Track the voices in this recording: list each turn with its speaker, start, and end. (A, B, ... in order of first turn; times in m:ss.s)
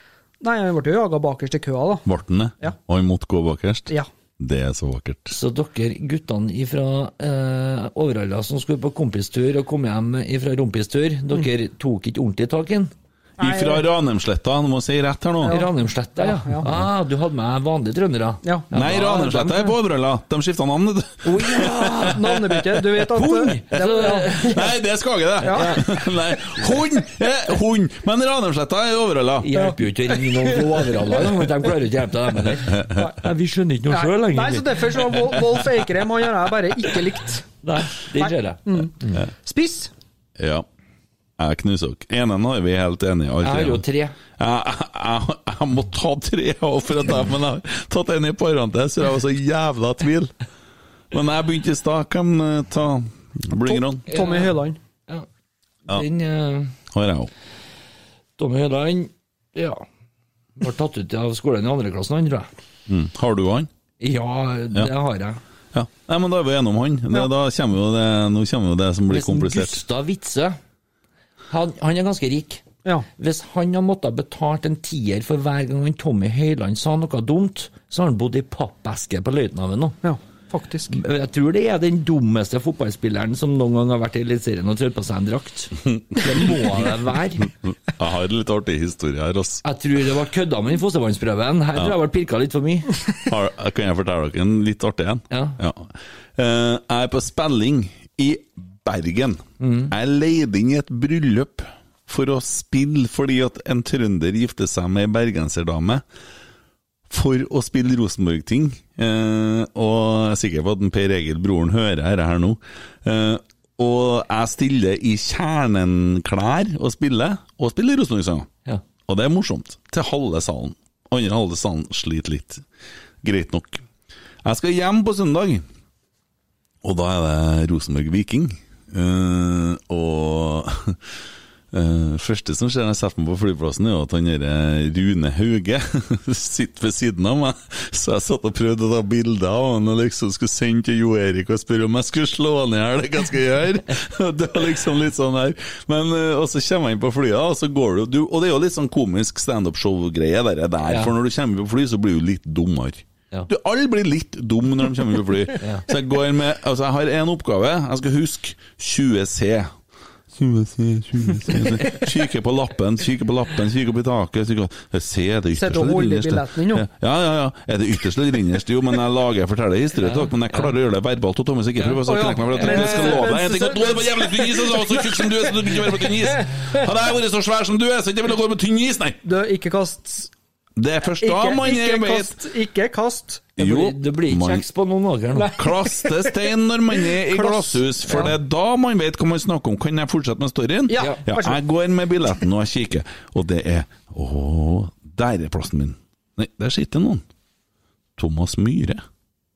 0:00.4-0:02.1 A
0:02.1-0:05.4 B
0:05.3-0:12.9 C
0:13.4-0:13.9 A
0:13.4-0:15.6 B
0:15.4-0:16.8 A
0:15.4-0:19.7 C
0:18.7-0:22.8 B
0:21.2-0:22.4 C
0:21.9-0:24.7 A
0:23.1-0:24.7 C
0:24.3-0:29.6 B
0:25.4-0:25.8 C
0:25.4-0:25.8 A
0:29.4-0:35.2 C
0:29.6-0:30.9 A
0:32.6-0:33.1 B
0:33.9-0:37.5 A
0:37.6-0:39.2 C
0:38.2-0:39.9 A
0:40.4-0:40.7 B
0:41.4-0:43.8 B
0:43.4-0:44.2 C
0:44.4-0:50.3 B
0:51.1-0:54.0 B
0:53.6-0:54.8 A
0:54.1-0:54.6 C
0:55.9-0:56.8 C
0:56.9-0:57.3 B
0:58.4-0:59.8 C
1:00.6-1:02.5 C
1:02.9-1:03.7 B
1:04.0-1:05.4 C
1:05.7-1:09.8 B
1:09.1-1:10.6 C
1:11.5-1:12.6 C
1:13.2-1:20.0 C
1:20.0-1:21.0 A
1:20.9-1:27.5 C
1:25.9-1:26.7 B
1:27.6-1:29.6 B
1:29.6-1:32.9 C
1:33.3-1:46.0 B
1:35.3-1:35.6 C
1:39.6-1:39.9 C
1:47.1-1:58.5 B
1:59.1-2:02.6 B
2:03.2-2:03.8 B
2:04.4-2:05.6 B
2:06.8-2:11.0 B
2:11.7-2:39.7 B
2:30.9-2:31.1 C
2:35.6-2:35.9 C
2:40.4-2:59.2 B
2:45.6-2:46.9 A
2:50.0-2:50.7 C
2:52.0-2:55.5 A
2:52.5-2:53.2 C
2:59.2-3:00.3 A
3:00.8-3:02.4 B
3:01.1-3:03.5 A
3:03.6-3:04.6 B
3:03.6-3:05.6 C
3:05.4-3:06.5 A
3:05.5-3:17.2 B
3:07.1-3:08.4 A
3:10.9-3:11.6 A
3:18.2-3:19.0 B